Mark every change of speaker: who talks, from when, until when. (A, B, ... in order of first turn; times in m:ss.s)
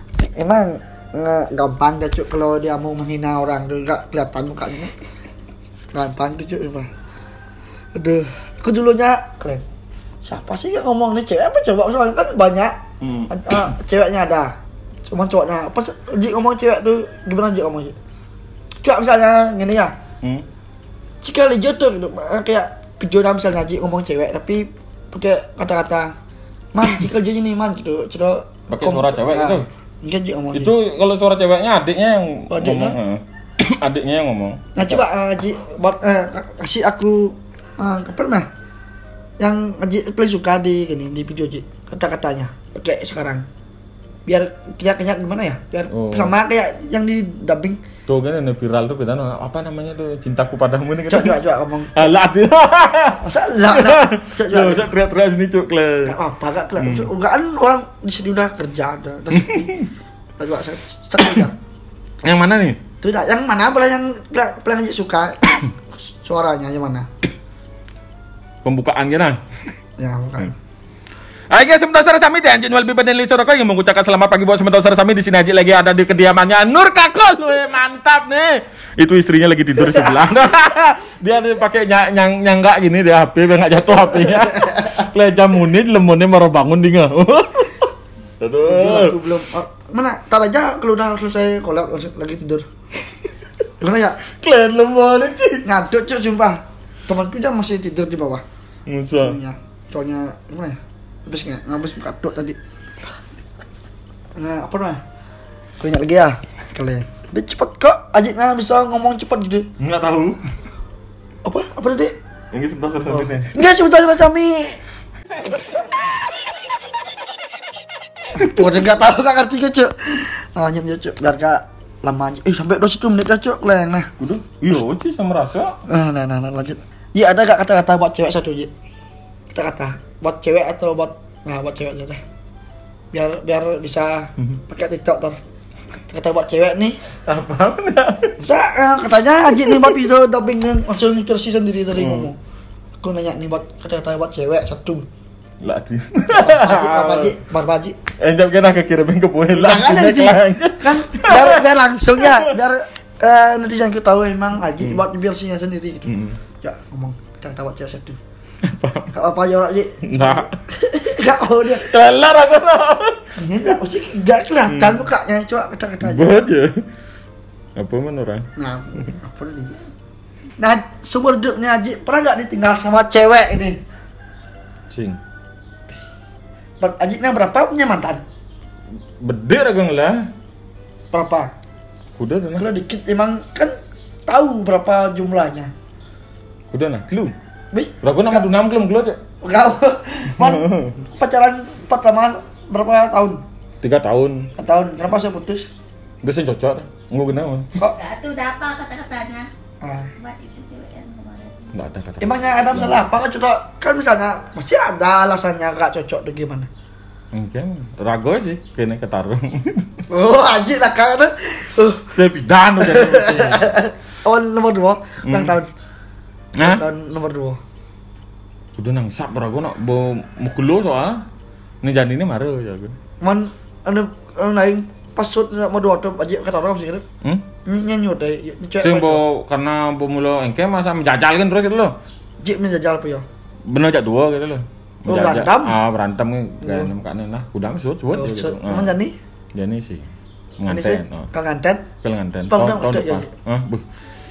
0:00.2-0:04.9 A
0:05.9-0:06.9 A
0:07.9-0:09.6 A
0:10.2-0:12.8 A
0:13.0-0:13.6 B
0:13.3-0:14.5 A
0:15.0-0:18.0 A
0:18.8-0:19.9 A
0:20.2-0:20.4 B
0:21.2-0:26.1 A
0:26.7-0:30.7 A
0:28.7-0:29.6 B
0:30.5-0:35.0 B
0:32.5-0:33.0 A
0:34.7-0:38.5 A
0:39.4-0:43.4 A
0:44.2-0:47.8 A
0:45.9-0:46.3 B
0:48.1-0:51.4 B
0:51.1-0:52.2 A
0:51.9-0:56.2 B
0:53.2-0:54.8 A
0:56.0-0:59.8 A
0:56.8-0:57.1 B
0:59.3-0:59.8 B
1:00.4-1:01.6 A
1:02.2-1:02.8 B
1:03.0-1:07.1 A
1:08.6-1:09.4 B
1:10.0-1:10.5 A
1:11.5-1:27.9 B
1:28.4-1:29.2 B
1:28.6-1:32.7 A
1:33.8-1:34.2 A
1:34.2-1:35.6 B
1:35.6-1:38.4 A
1:38.9-1:39.4 B
1:39.2-1:42.6 A
1:44.4-1:45.0 A
1:45.8-1:49.7 A
1:49.8-1:50.4 B
1:51.4-1:52.1 A
1:52.5-1:53.6 B
1:53.1-1:54.8 A
1:58.3-2:04.1 A
2:04.2-2:05.8 B
2:05.9-2:08.7 A
2:09.5-2:12.2 A
2:13.1-2:15.4 A
2:16.1-2:17.0 A
2:17.2-2:18.3 B
2:18.4-2:22.4 A
2:19.6-2:20.0 B
2:21.9-2:22.3 B
2:23.0-2:25.1 A
2:25.6-2:27.4 B
2:26.2-2:28.0 A
2:28.2-2:32.5 B
2:29.5-2:38.2 A
2:36.1-2:36.4 B
2:38.6-2:39.1 B
2:39.1-2:41.9 A
2:40.0-2:40.5 B
2:41.7-2:43.7 B
2:43.4-2:46.4 A
2:44.7-2:45.0 B
2:46.0-2:46.9 B
2:47.8-2:48.5 B
2:48.6-2:49.8 A
2:50.6-2:53.8 A
2:54.9-2:55.2 B
2:56.8-2:58.2 A
2:59.2-3:00.3 B
3:01.1-3:01.5 A
3:02.2-3:02.7 B
3:02.6-3:03.7 A
3:04.3-3:05.7 A
3:06.7-3:07.3 B
3:07.7-3:08.4 A
3:08.0-3:09.2 B
3:09.4-3:13.4 A
3:10.4-3:11.0 B
3:13.8-3:14.5 B
3:14.6-3:15.6 A
3:16.2-3:17.7 B
3:17.8-3:19.5 C
3:19.8-3:20.1 A
3:20.2-3:21.7 C
3:21.7-3:23.1 B
3:22.2-3:26.7 A
3:27.3-3:30.0 B
3:30.1-3:32.1 A
3:32.1-3:33.7 B
3:32.8-3:35.7 A
3:35.2-3:35.6 B
3:36.6-3:36.8 B
3:36.6-3:37.6 A
3:38.8-3:41.2 B
3:41.8-3:43.0 B
3:43.2-3:47.0 A
3:47.6-3:49.2 A
3:48.8-3:52.0 B
3:52.4-3:53.2 A
3:53.7-3:58.9 B
3:55.1-3:55.8 A
3:56.6-3:56.9 A
3:58.1-3:59.1 A
3:59.5-4:01.3 B
4:00.7-4:01.9 A
4:02.0-4:03.8 B
4:02.5-4:03.3 A